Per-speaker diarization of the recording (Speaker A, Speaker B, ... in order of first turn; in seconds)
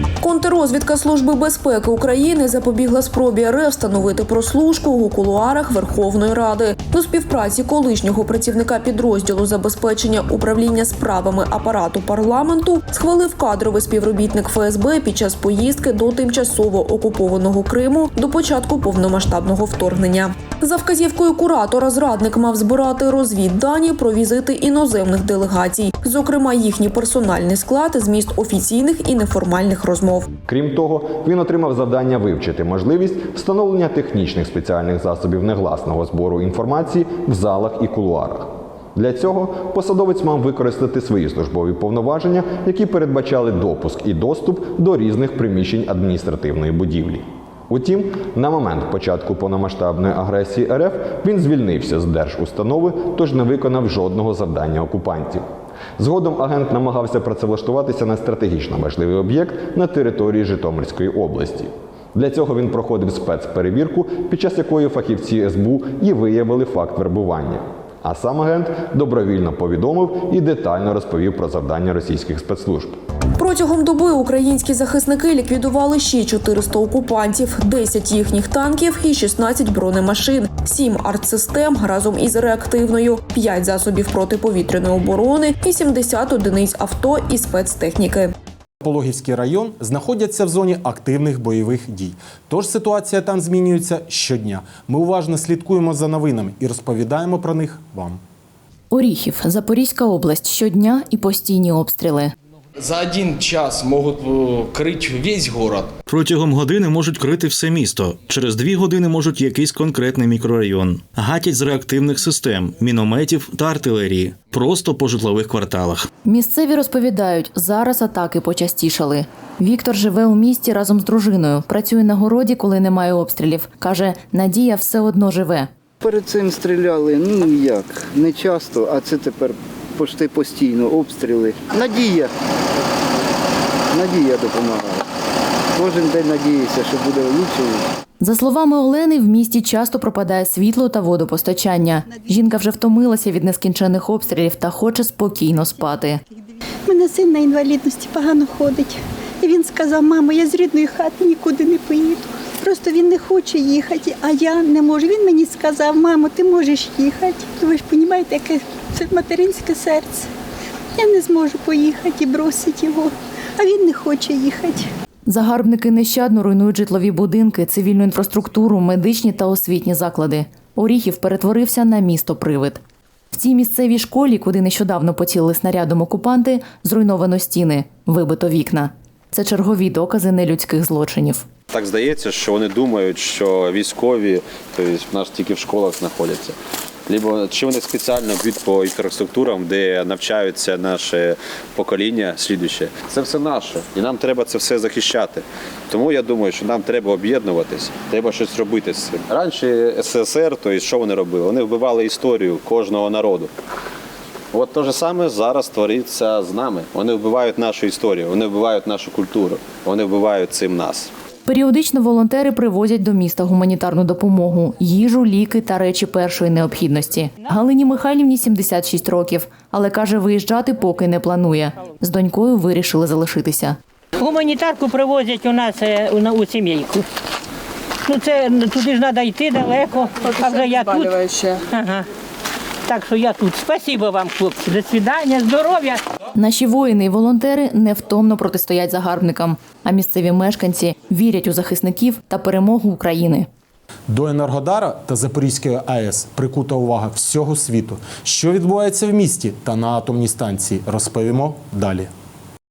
Speaker A: 0.2-30.3, 73.4-88.3
Speaker B: 30.4-55.5, 56.0-73.0
Speaker C: 88.8-98.2, 244.1-252.1
Speaker D: 98.9-102.3, 116.2-125.7, 138.2-146.2, 165.3-172.8, 173.3-181.4, 211.5-223.8, 236.4-243.5
Speaker E: 102.8-105.9
Speaker F: 106.1-116.1
Speaker G: 126.0-132.3, 133.9-135.0, 135.8-137.8
Speaker H: 146.9-160.3, 161.0-164.9
Speaker I: 181.7-186.6, 187.1-203.5, 204.5-211.1
Speaker J: 224.2-227.1, 228.1-232.1, 232.9-236.0